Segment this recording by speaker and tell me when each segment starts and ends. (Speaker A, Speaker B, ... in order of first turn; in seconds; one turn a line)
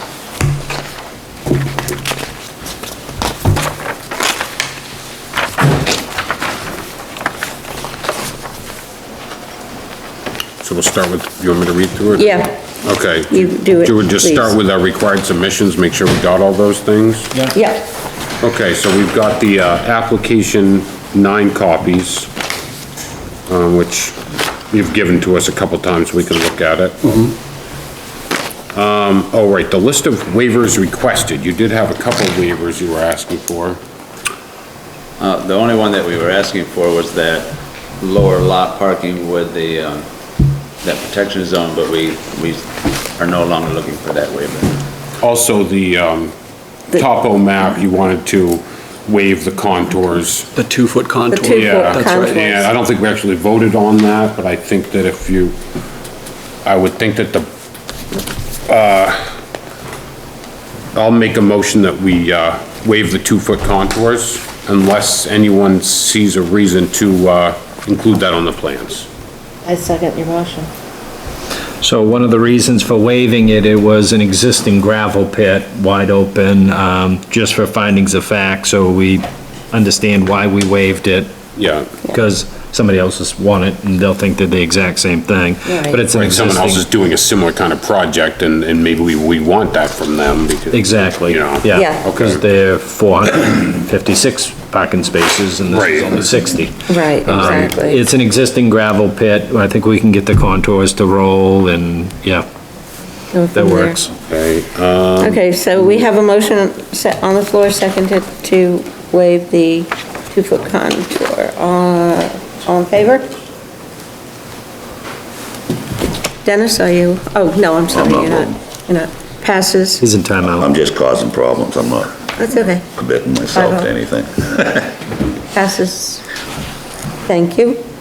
Speaker A: 10.6-17.3
Speaker B: 12.2-12.5
Speaker B: 13.3-14.6
Speaker B: 17.5-17.9
Speaker A: 18.4-22.3
Speaker A: 23.5-24.2
Speaker A: 24.7-27.3
Speaker A: 28.7-33.8
Speaker C: 35.2-40.1
Speaker C: 40.8-44.8
Speaker A: 45.2-46.3
Speaker A: 46.9-50.5
Speaker D: 50.5-52.5
Speaker B: 51.3-52.7
Speaker A: 51.4-55.6
Speaker A: 56.6-57.5
Speaker A: 58.7-59.2
Speaker A: 60.9-69.1
Speaker B: 69.7-70.7
Speaker E: 71.8-81.3
Speaker A: 81.6-81.9
Speaker E: 82.1-86.9
Speaker B: 85.7-86.0
Speaker A: 86.1-92.4
Speaker E: 90.7-102.5
Speaker B: 91.7-92.0
Speaker A: 95.7-96.2
Speaker B: 96.9-98.0
Speaker B: 103.3-103.9
Speaker E: 103.5-104.1
Speaker A: 104.3-105.4
Speaker B: 105.2-113.3
Speaker B: 116.4-120.0
Speaker F: 117.9-118.6
Speaker E: 120.0-120.7
Speaker F: 120.5-122.2
Speaker B: 122.4-122.9
Speaker F: 122.9-125.0
Speaker B: 123.5-123.9
Speaker B: 125.5-126.2
Speaker B: 127.3-127.8